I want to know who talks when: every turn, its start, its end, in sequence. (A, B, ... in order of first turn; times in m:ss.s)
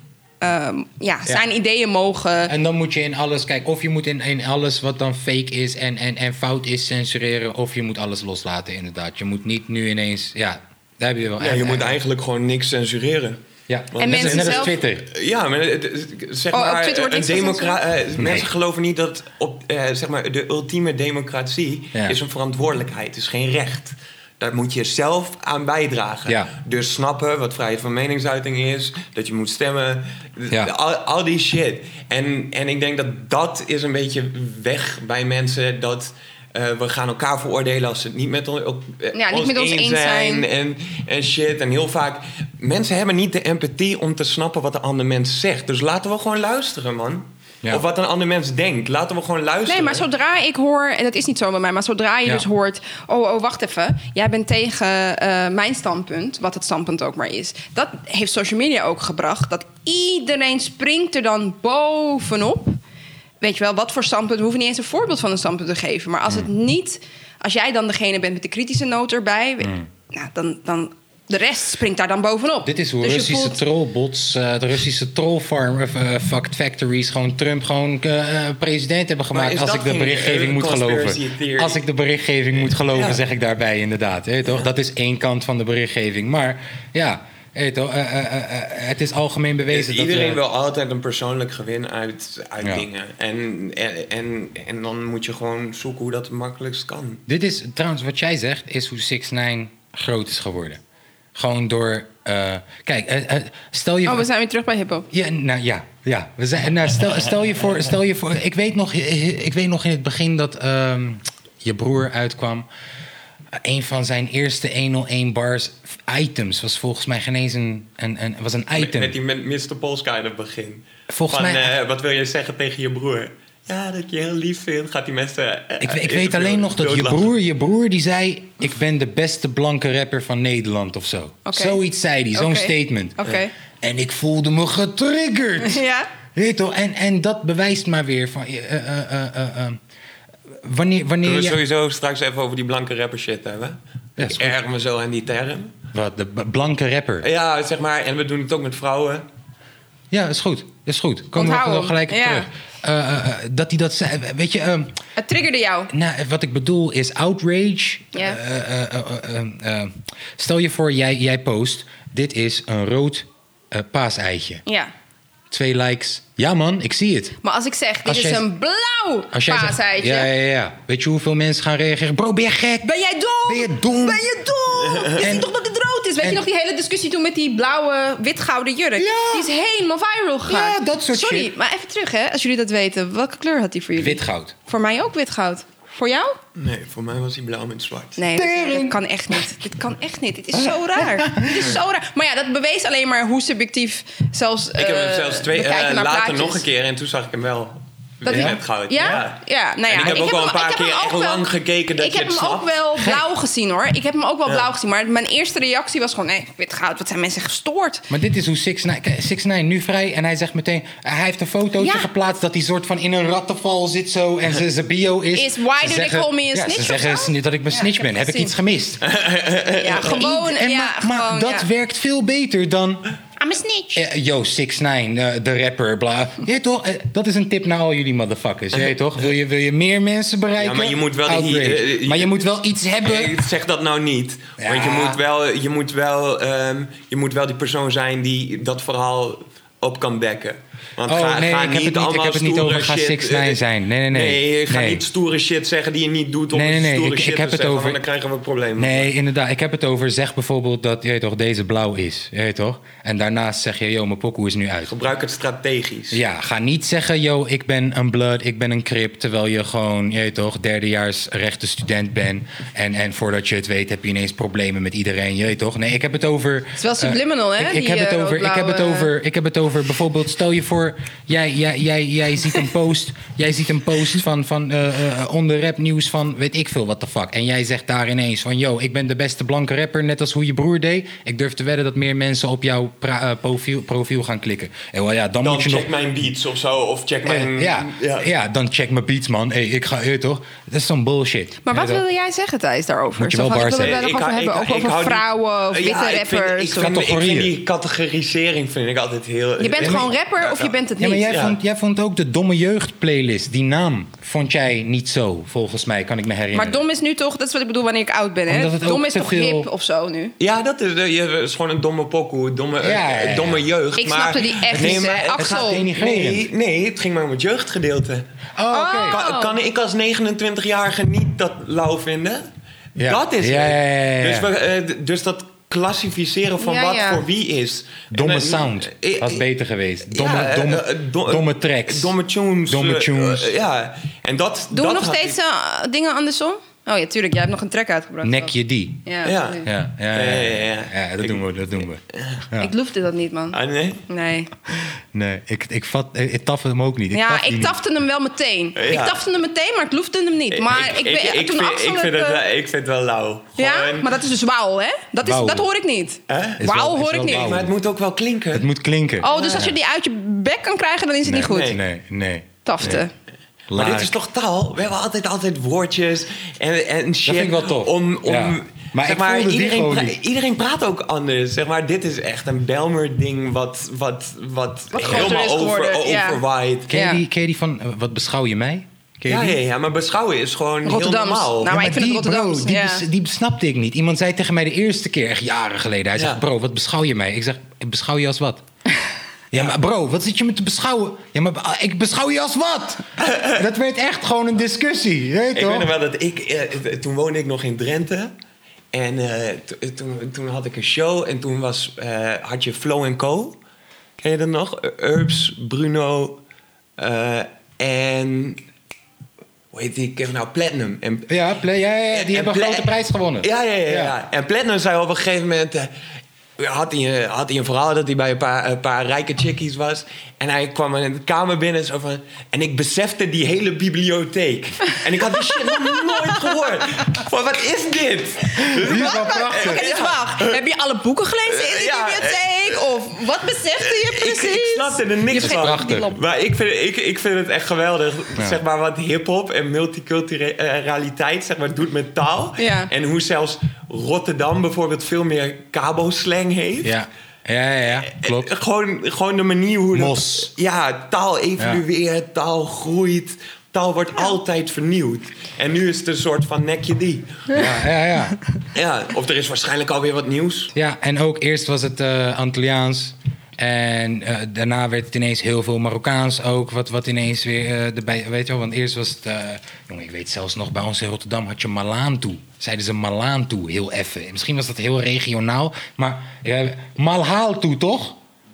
0:00.4-0:02.5 A
0:02.5-0:12.0 B
0:11.4-0:13.4 C
0:13.7-0:15.1 B
0:13.9-0:50.0 C
0:14.0-0:14.8 A
0:16.5-0:17.8 A
0:18.2-0:18.5 B
0:39.1-0:40.5 A
0:49.7-1:02.8 A
1:03.4-1:13.6 A
1:12.6-1:30.4 B
1:19.3-1:21.8 C
1:22.9-1:23.2 C
1:29.7-1:37.2 C
1:32.6-1:32.9 B
1:37.3-1:40.8 B
1:41.4-1:44.3 B
1:44.1-1:45.1 A
1:45.1-1:52.6 B
1:53.6-1:59.2 B
1:58.8-2:07.3 C
2:01.1-2:01.7 B
2:05.8-2:13.2 B
2:11.5-2:11.8 A
2:12.3-2:13.5 A
2:13.8-2:15.8 B
2:15.6-2:16.1 A
2:16.4-2:19.8 B
2:20.6-2:21.6 B
2:21.2-2:25.8 C
2:24.2-2:24.6 B
2:25.9-2:27.3 B
2:27.2-2:29.2 C
2:30.1-2:35.0 B
2:31.3-2:32.5 A
2:35.2-2:35.9 A
2:35.9-2:44.6 B
2:38.1-2:38.4 A
2:44.7-2:44.9 A
2:45.5-2:47.4 B
2:47.4-2:50.3 A
2:48.1-2:48.5 B
2:49.3-2:52.9 B
2:52.8-3:06.4 A
2:53.4-2:54.2 B
2:54.9-2:55.2 C
2:55.1-2:55.5 B
2:59.0-2:59.5 B
3:00.5-3:01.5 B
3:04.0-3:04.6 B
3:06.6-3:08.2 C
3:08.2-3:16.6 A
3:08.3-3:09.0 B
3:11.0-3:11.7 B
3:14.8-3:22.8 C
3:18.2-3:21.5 A
3:18.3-3:18.6 B
3:22.0-3:28.1 A
3:28.1-3:39.0 B
3:31.8-3:32.1 A
3:35.3-3:38.5 A
3:39.0-3:40.2 C
3:39.8-3:41.7 A
3:39.9-3:43.1 B
3:43.4-3:44.0 A
3:44.0-3:53.4 B
3:50.6-3:52.4 C
3:53.0-4:09.1 C
3:54.6-3:55.2 B
4:01.1-4:05.0 B
4:06.5-4:08.0 B
4:08.8-4:14.9 B
4:14.9-4:16.2 C
4:16.1-4:45.9 B
4:26.8-4:29.1 A
4:45.4-4:48.3 C
4:47.3-4:52.0 B
4:51.6-4:56.9 A
4:53.2-4:54.0 B
4:53.8-5:00.8 C
4:56.8-4:57.5 B
4:59.6-5:01.3 A
4:59.8-5:00.1 B
5:01.0-5:06.8 B
5:01.3-5:01.6 C
5:06.5-5:10.3 A
5:08.5-5:09.7 B
5:10.4-5:18.3 C
5:12.8-5:13.6 B
5:14.0-5:15.9 A
5:14.7-5:16.5 B
5:18.6-5:19.2 B
5:18.7-5:19.6 A
5:19.1-5:29.4 C
5:23.0-5:24.5 B
5:26.6-5:27.2 A
5:28.1-5:32.1 B
5:30.1-5:35.4 C
5:32.7-5:33.5 B
5:34.7-5:38.5 A
5:38.2-5:39.1 B
5:39.0-5:39.7 A
5:39.2-5:41.4 C
5:39.6-5:42.7 B
5:42.1-5:42.4 C
5:42.6-5:44.5 A
5:43.5-5:44.0 C
5:45.1-5:47.8 B
5:47.1-5:52.4 A
5:48.8-5:49.2 C
5:50.5-5:54.1 C
5:53.6-5:57.6 A
5:55.2-5:55.7 B
5:56.3-5:56.7 C
5:56.6-5:57.7 B
5:57.2-5:58.7 C
5:58.5-5:59.8 B
5:59.2-6:01.8 A
5:59.2-5:59.7 C
6:01.2-6:03.0 B
6:01.5-6:01.8 C
6:02.6-6:03.1 A
6:03.7-6:04.1 B
6:03.7-6:16.9 C
6:07.3-6:10.2 B
6:14.9-6:17.2 A
6:16.9-6:19.6 B
6:19.3-6:21.8 C
6:20.8-6:23.0 A
6:21.6-6:28.6 B
6:29.5-6:35.9 B
6:33.2-6:33.6 C
6:35.5-6:38.3 C
6:38.9-6:43.6 C
6:44.2-6:46.4 C
6:47.0-6:48.6 C
6:49.7-6:51.3 C
6:51.3-6:54.1 B
6:52.1-6:55.9 C
6:56.6-7:10.6 C
7:05.7-7:06.0 A
7:08.6-7:09.9 B
7:08.6-7:16.2 A
7:11.5-7:12.8 C
7:13.8-7:26.9 C
7:15.4-7:16.1 B
7:18.4-7:18.6 B
7:22.6-7:22.9 A
7:26.8-7:28.5 B
7:28.0-7:37.7 C
7:29.9-7:30.5 B
7:37.5-7:38.4 B
7:38.7-7:40.7 C
7:40.7-7:58.2 B